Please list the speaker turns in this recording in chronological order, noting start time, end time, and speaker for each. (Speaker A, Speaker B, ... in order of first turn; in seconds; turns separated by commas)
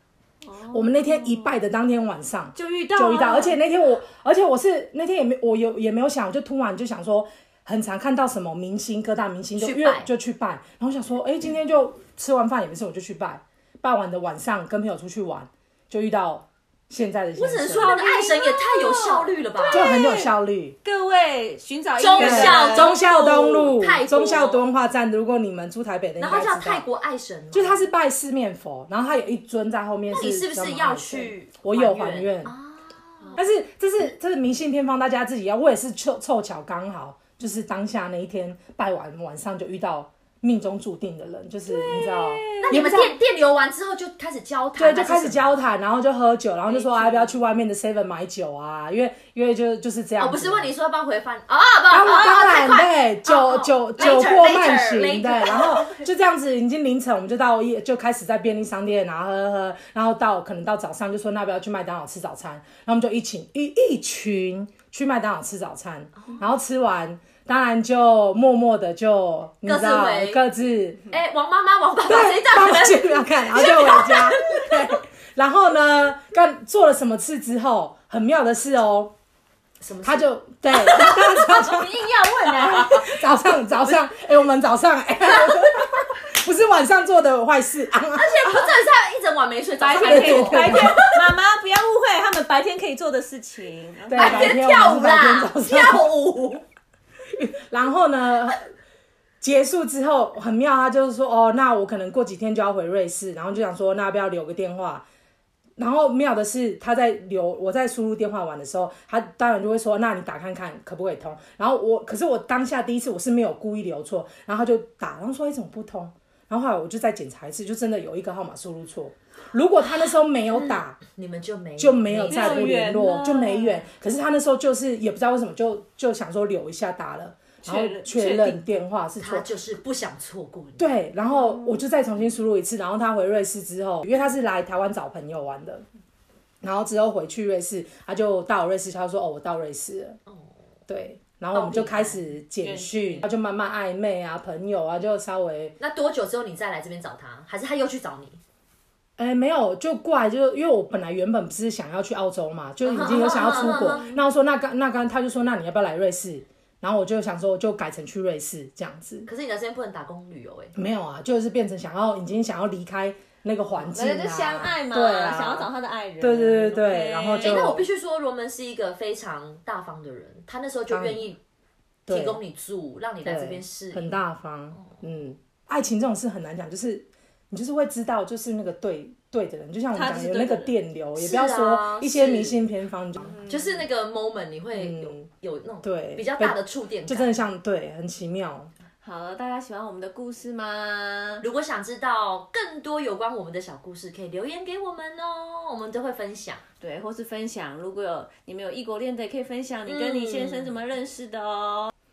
Speaker A: 0.4-1.6, Speaker B: 0.7-17.9, Speaker C: 2.5-3.6, Speaker C: 9.6-10.1, Speaker C: 17.3-19.8, Speaker A: 17.8-23.4, Speaker B: 19.7-20.8, Speaker C: 22.0-24.7, Speaker B: 22.1-26.8, Speaker C: 26.2-27.9, Speaker B: 27.5-32.5, Speaker C: 30.1-33.4, Speaker B: 33.4-43.2, Speaker A: 41.6-42.9, Speaker C: 42.6-45.6, Speaker B: 44.8-50.7, Speaker C: 46.7-47.3, Speaker A: 46.7-47.1, Speaker C: 50.2-56.1, Speaker B: 51.9-71.0, Speaker C: 69.6-70.4, Speaker C: 71.1-74.9, Speaker B: 72.0-79.1, Speaker C: 79.8-83.2, Speaker B: 80.0-81.9, Speaker B: 82.5-88.5, Speaker C: 83.8-84.1, Speaker C: 85.3-85.7, Speaker C: 88.1-91.3, Speaker A: 89.8-94.6, Speaker B: 90.0-91.1, Speaker B: 94.1-96.1, Speaker C: 94.2-96.6, Speaker B: 97.3-98.7, Speaker B: 99.4-105.0, Speaker B: 105.8-121.0, Speaker C: 120.1-122.7, Speaker B: 121.8-129.5, Speaker A: 122.2-123.8, Speaker A: 127.6-128.8, Speaker C: 129.2-130.9, Speaker B: 130.8-135.8, Speaker A: 131.3-131.8, Speaker B: 136.6-140.2, Speaker C: 140.2-140.6, Speaker B: 140.9-145.8, Speaker C: 141.5-142.4, Speaker A: 142.6-143.3, Speaker C: 145.8-148.4, Speaker B: 149.2-159.3, Speaker C: 152.8-154.1, Speaker A: 153.0-154.2, Speaker C: 159.2-160.7, Speaker B: 160.7-167.8, Speaker A: 163.8-167.7, Speaker C: 167.4-171.4, Speaker B: 170.9-171.2, Speaker B: 172.1-172.4, Speaker C: 172.1-174.2, Speaker B: 173.2-183.4, Speaker A: 179.9-180.8, Speaker C: 181.2-182.7, Speaker C: 183.4-187.4, Speaker A: 183.4-183.8, Speaker B: 184.7-185.3, Speaker B: 185.8-188.7, Speaker A: 189.0-191.4, Speaker C: 191.4-196.6, Speaker A: 196.8-201.9, Speaker C: 199.8-200.7